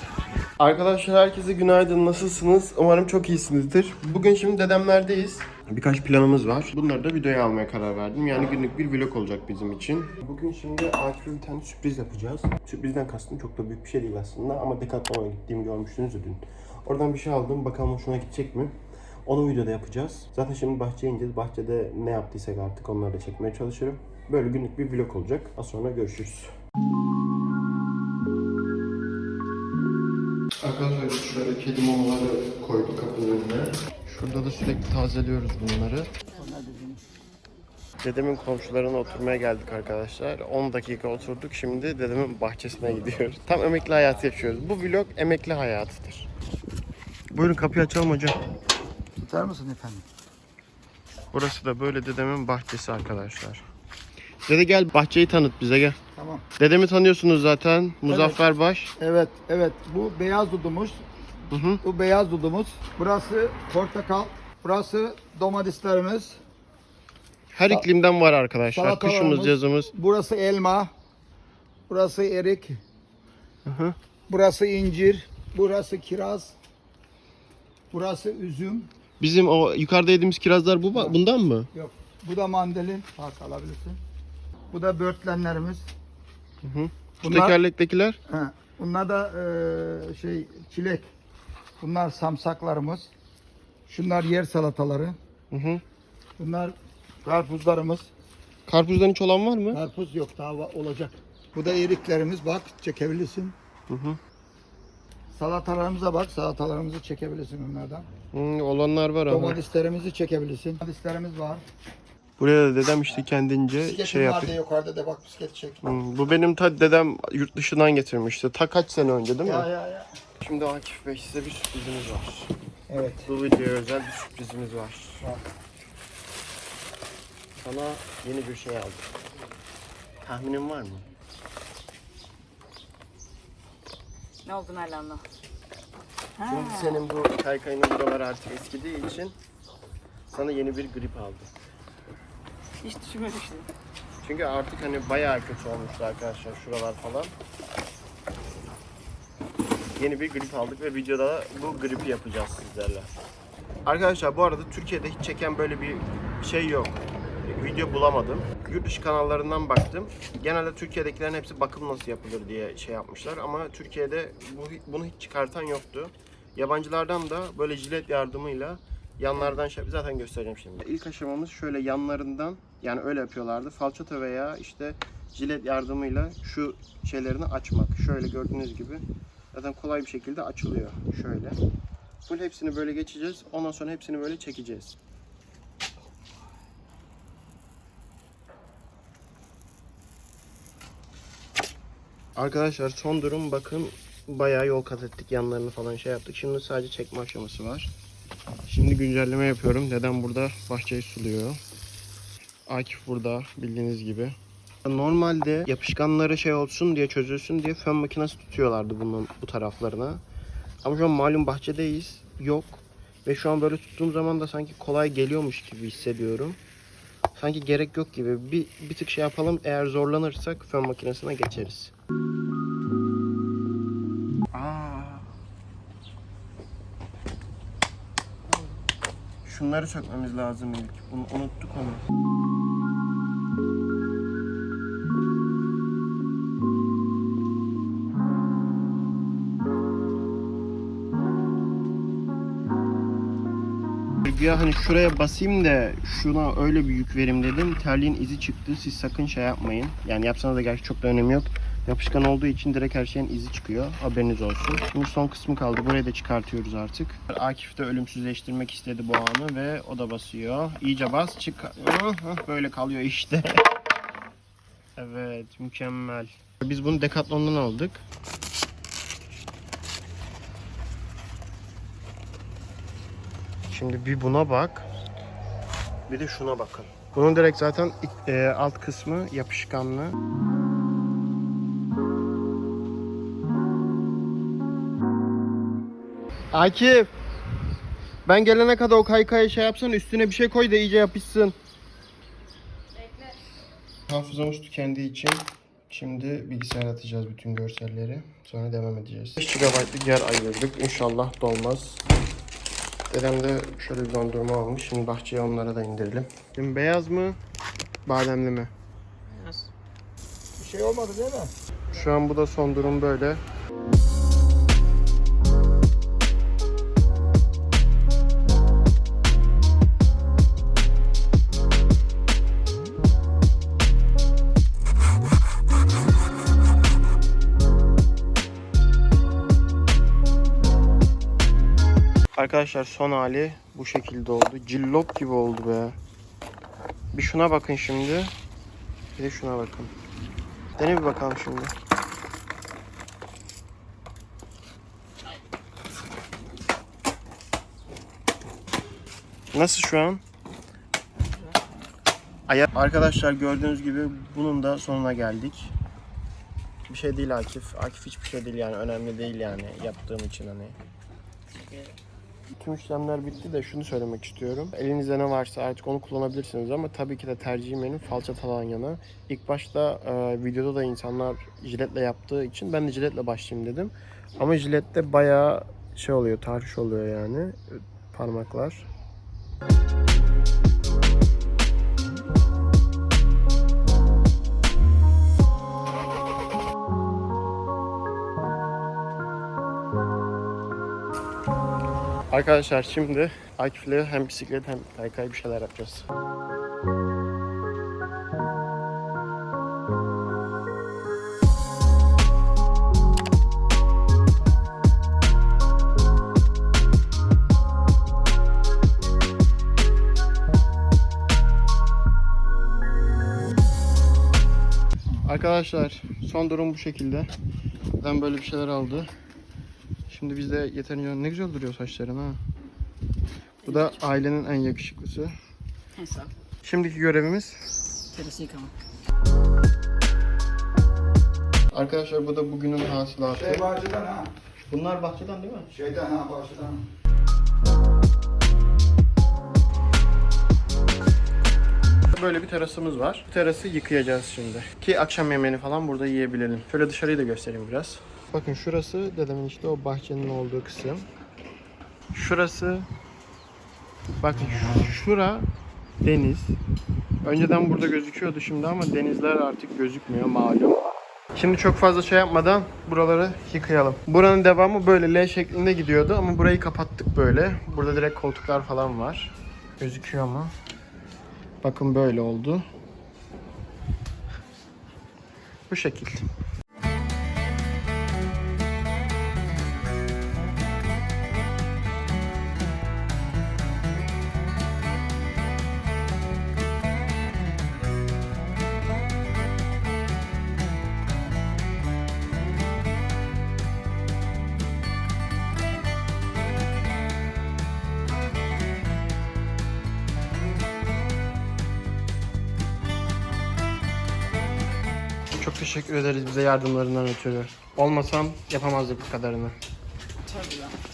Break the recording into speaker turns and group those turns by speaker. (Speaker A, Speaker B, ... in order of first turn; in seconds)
Speaker A: 0.6-18.7, 19.2-26.5, 30.6-36.1, 38.0-46.3, 47.3-48.4, 51.3-53.6, 54.5-56.0, 56.6-58.9, 61.5-61.8, 67.5-69.9, 73.6-74.0, 79.2-81.7, 86.6-88.2, 95.5-95.8, 98.7-99.8, 103.9-104.2, 108.3-109.6, 112.4-114.5, 115.8-119.7, 120.4-122.5, 123.2-125.3, 127.6-129.1, 130.2-131.1, 136.4-139.3, 140.3-141.5, 144.2-147.3, 150.0-153.1, 153.8-181.6, 182.2-185.0, 192.3-197.9, 198.7-201.6, 202.7-210.2, 210.8-216.6, 217.3-221.9, 224.5-225.3, 229.4-232.1, 244.2-263.7, 265.0-268.0, 273.7-274.9, 276.1-280.2, 286.5-287.1, 288.2-291.6, 294.1-302.0, 303.1-307.4, 308.1-308.7, 311.9-313.4, 332.3-336.0, 337.1-338.3, 339.1-339.9, 340.8-341.7, 349.5-350.2, 352.5-355.7, 356.9-360.8, 362.6-378.9, 392.3-396.0, 415.2-417.3, 418.0-419.1, 420.1-422.4, 423.6-425.3, 426.6-427.6, 431.7-433.7, 434.7-435.7, 442.1-451.1, 452.1-452.9, 454.2-455.5, 456.0-456.6, 457.2-470.5, 471.6-472.6, 475.7-476.2, 505.4-509.6
Speaker B: 36.4-37.0, 49.2-50.0, 56.1-56.4, 58.1-58.4, 59.0-61.0, 61.8-66.4, 68.7-70.9, 71.9-72.8, 74.3-76.5, 77.9-78.9, 81.7-84.0, 84.7-85.9, 87.2-87.6, 88.3-91.1, 91.8-93.1, 93.9-95.2, 96.4-98.1, 99.7-103.5, 105.3-108.1, 109.3-111.6, 113.8-115.9, 119.4-120.1, 122.9-123.3, 310.6-311.5, 433.3-434.3, 435.7-436.8
Speaker C: 134.4-135.2, 136.4-137.0, 142.8-143.7, 426.0-426.3, 428.1-428.7, 510.4-510.7